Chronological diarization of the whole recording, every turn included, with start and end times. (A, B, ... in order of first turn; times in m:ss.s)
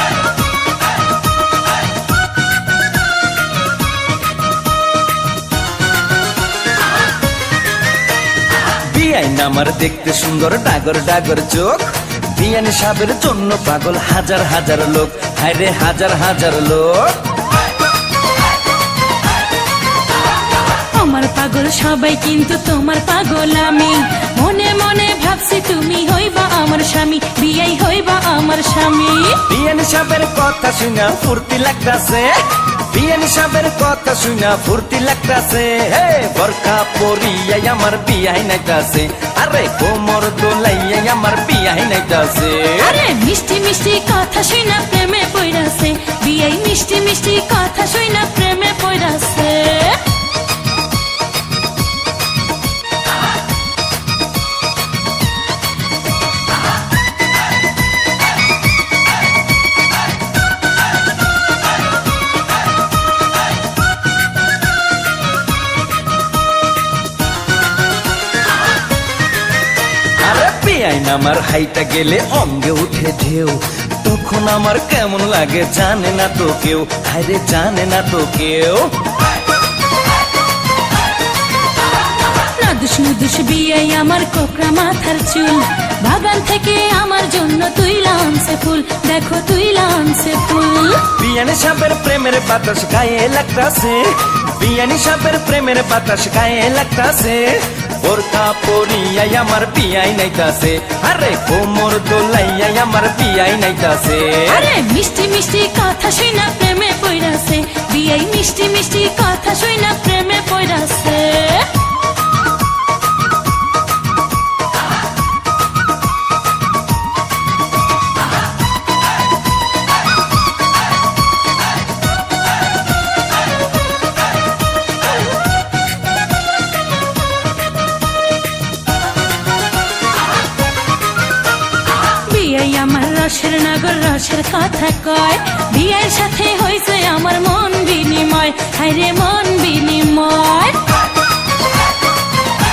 0:08.9-0:17.2 A
0:20.9-0:29.4 B
0:29.4-0:43.0 A
0:42.8-0:50.0 B
1:10.2-1:18.9 A
1:22.4-1:31.1 B
1:31.1-1:44.7 A
1:44.4-1:51.7 B
2:12.2-2:20.8 B